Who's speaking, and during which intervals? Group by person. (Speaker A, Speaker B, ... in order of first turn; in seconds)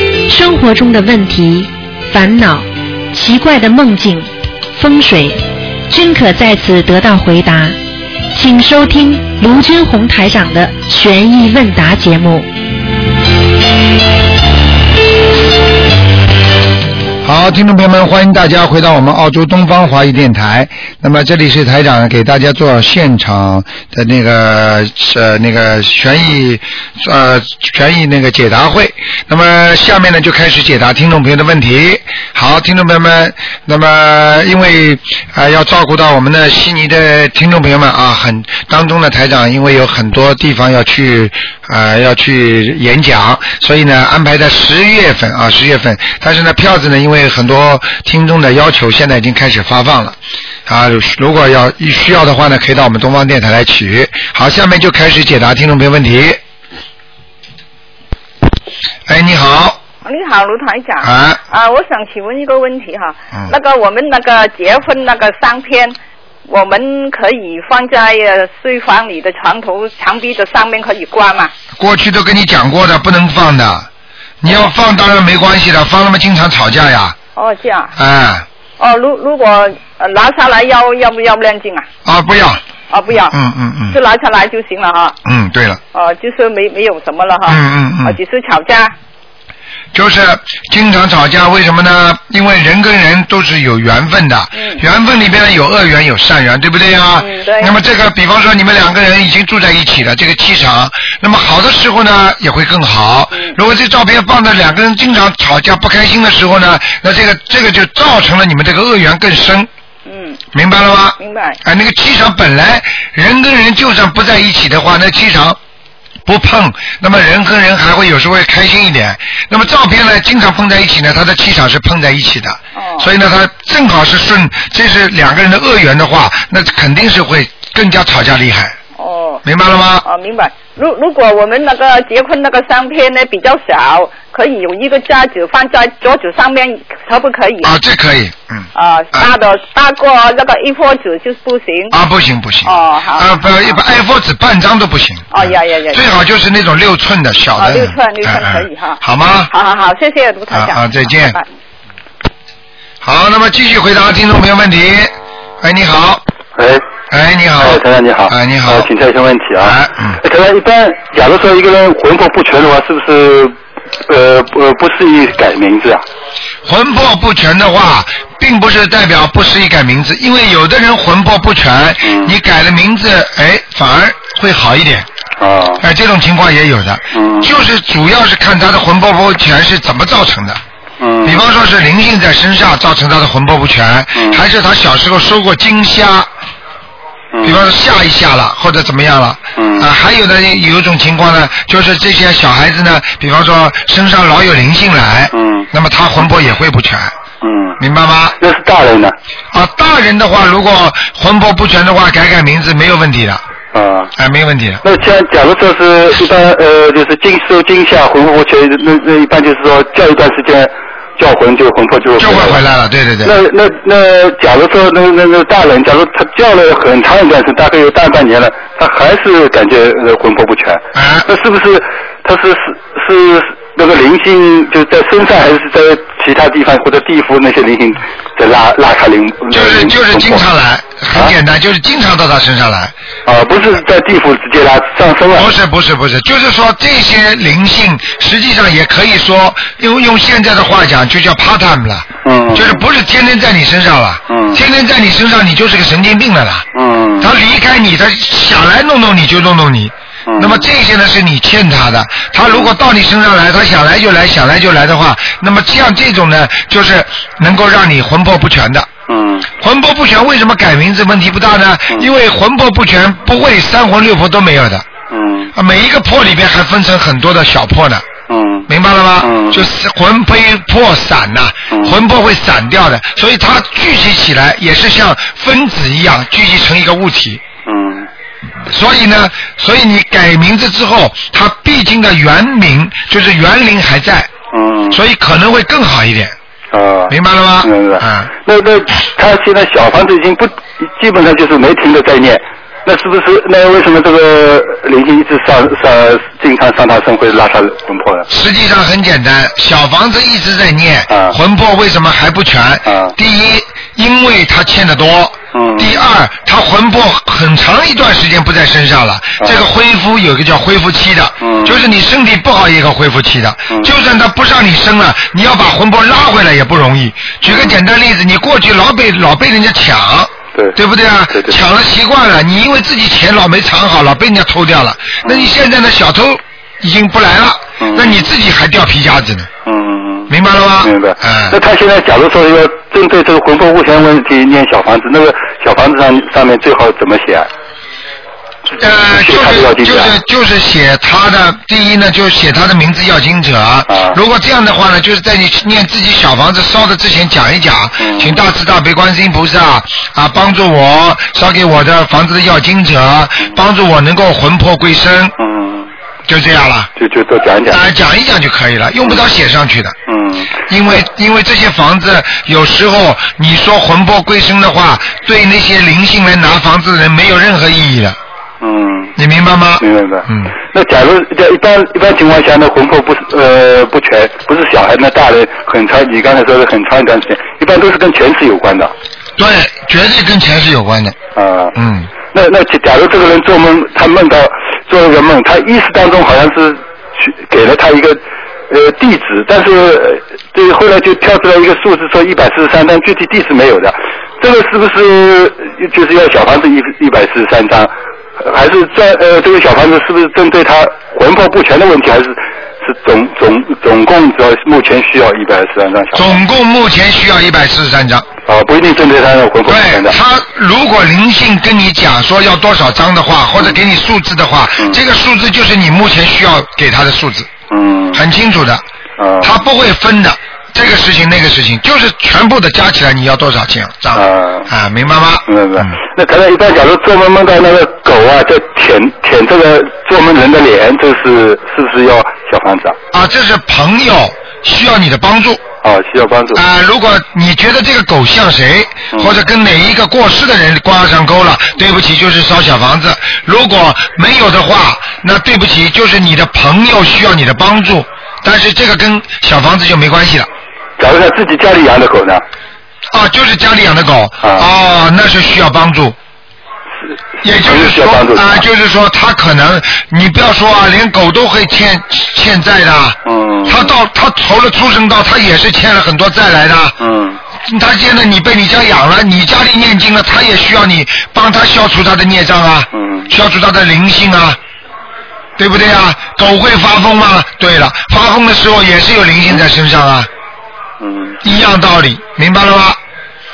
Speaker A: 0.3-7.8, 8.3-12.5
Speaker B: 17.2-56.4, 59.1-59.8, 61.0-61.4, 71.8-73.9, 74.4-77.2, 78.0-78.5, 82.0-82.6, 83.3-84.0, 85.2-85.8, 87.5-88.2, 89.9-109.7, 110.5-115.6, 116.3-128.8, 129.4-130.1, 137.6-139.3, 141.9-149.5, 150.5-151.4, 153.0-156.2, 157.1-158.9, 159.6-160.2, 166.6-175.1, 175.8-180.6, 181.2-186.3, 187.4-197.2, 197.8-198.4, 199.5-203.4, 204.2-204.8, 212.2-213.3, 220.9-221.3, 229.5-232.9, 235.3-246.7, 247.2-258.9, 259.6-264.9, 265.6-268.1, 268.7-277.4, 278.6-284.3, 284.9-286.4, 287.1-288.3, 298.3-329.5, 330.3-331.6, 338.8-355.3, 356.3-356.9, 357.7-360.0, 360.7-368.2, 369.2-370.5, 379.4-381.2, 381.8-382.1, 406.1-408.3, 409.7-417.5, 418.1-418.8, 419.4-426.0, 433.1-435.6, 436.5-450.5, 453.1-456.2, 457.4-467.0, 467.6-474.6, 475.6-480.3, 481.4-483.0
Speaker C: 60.0-66.0, 66.5-71.5, 77.4-77.9, 78.8-81.9, 82.9-83.3, 83.9-85.2, 85.9-88.9, 94.5-94.8, 97.2-97.8, 110.1-110.4, 111.2-111.6, 122.8-123.1, 129.0-129.4, 130.0-137.7, 138.8-142.0, 142.7-143.8, 145.3-146.1, 147.6-151.5
Speaker D: 156.6-156.8, 157.6-163.5, 164.1-166.0, 172.1-172.3, 175.4-175.8, 177.1-177.5, 181.0-181.4, 187.3-187.6, 189.6-189.9, 195.3-195.7, 197.4-197.8, 198.4-199.2, 203.7-204.1, 204.8-212.6, 213.2-230.4, 233.3-235.5, 242.2-242.8, 244.3-244.6, 246.7-247.3, 250.3-250.7, 252.4-252.7, 259.1-259.5, 265.1-265.5, 268.3-268.7, 269.2-269.7, 271.7-272.0, 277.6-278.1, 284.5-285.0, 286.7-298.3, 301.1-301.4, 302.9-303.1, 305.5-305.9, 311.4-311.8, 317.5-317.8, 321.3-321.6, 325.2-325.5, 327.8-328.3, 329.6-330.3, 330.8-337.5, 339.1-340.1, 343.9-344.2, 348.0-348.4, 355.4-355.9, 357.0-357.8, 360.1-360.6, 368.6-369.1, 369.8-378.9, 381.4-381.8, 382.3-406.4, 408.5-410.2, 417.7-418.2, 419.2-419.5, 424.1-424.7, 425.5-433.0, 435.8-436.6, 439.1-439.4, 451.0-452.4, 454.4-454.7, 457.4-458.6, 463.3-463.9, 467.0-467.4, 472.9-473.3, 481.0-481.4